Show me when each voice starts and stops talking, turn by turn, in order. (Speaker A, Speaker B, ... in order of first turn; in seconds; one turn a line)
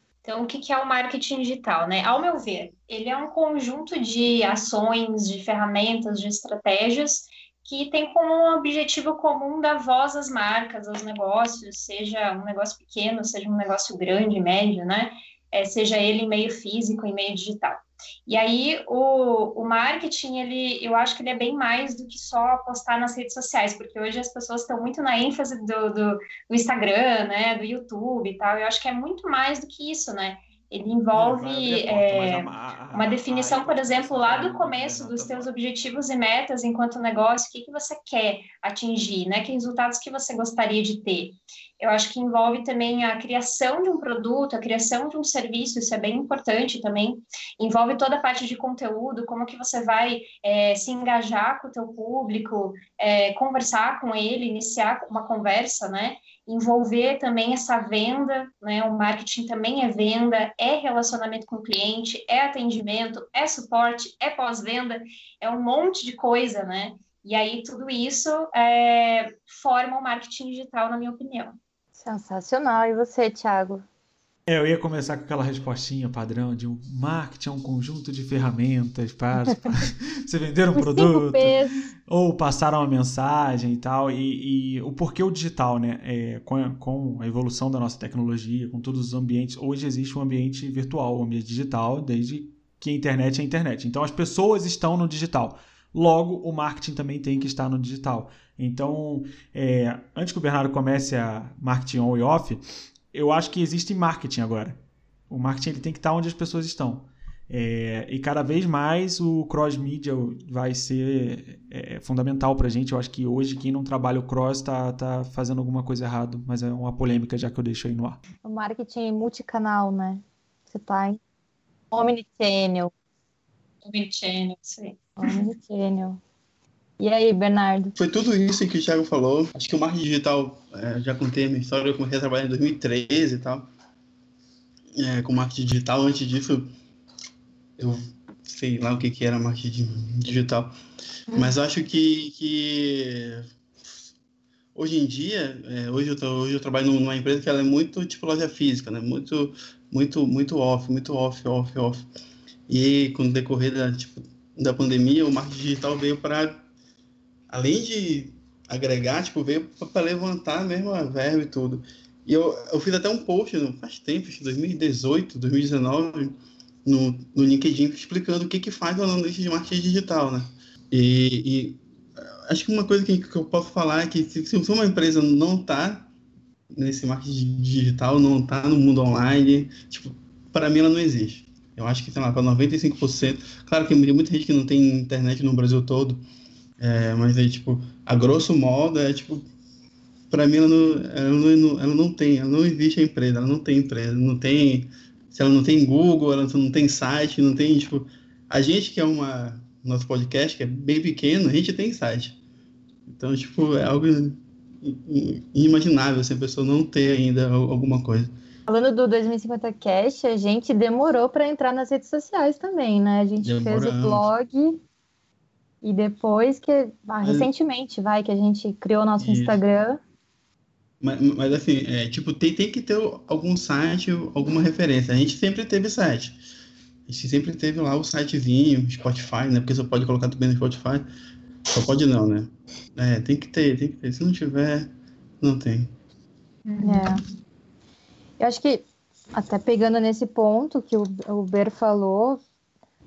Speaker A: 0.2-71.6
Speaker B: 31.1-35.5
Speaker C: 72.0-73.8
Speaker B: 74.5-81.5
Speaker C: 80.7-81.9
Speaker B: 82.1-102.6
Speaker B: 103.1-104.8
Speaker B: 105.3-118.2
Speaker C: 118.4-121.2
Speaker C: 121.9-122.9
Speaker A: 123.8-125.4
Speaker C: 125.2-126.2
Speaker C: 127.0-127.9
Speaker D: 128.0-133.7
Speaker D: 134.9-136.7
Speaker D: 137.8-140.7
Speaker D: 141.3-143.5
Speaker D: 144.7-152.1
Speaker D: 152.7-156.6
Speaker D: 157.5-171.8
Speaker D: 172.5-176.1
Speaker D: 176.7-186.2
Speaker D: 186.8-189.5
Speaker D: 190.3-202.4
Speaker D: 203.1-208.3
Speaker C: 208.7-214.8
Speaker D: 213.4-214.3
Speaker C: 215.8-220.0
Speaker D: 217.2-217.5
Speaker D: 219.2-219.6
Speaker D: 221.0-226.4
Speaker D: 227.1-231.0
Speaker D: 231.7-234.9
Speaker D: 235.4-235.9
Speaker A: 236.7-237.2
Speaker C: 236.8-237.2
Speaker C: 238.4-242.4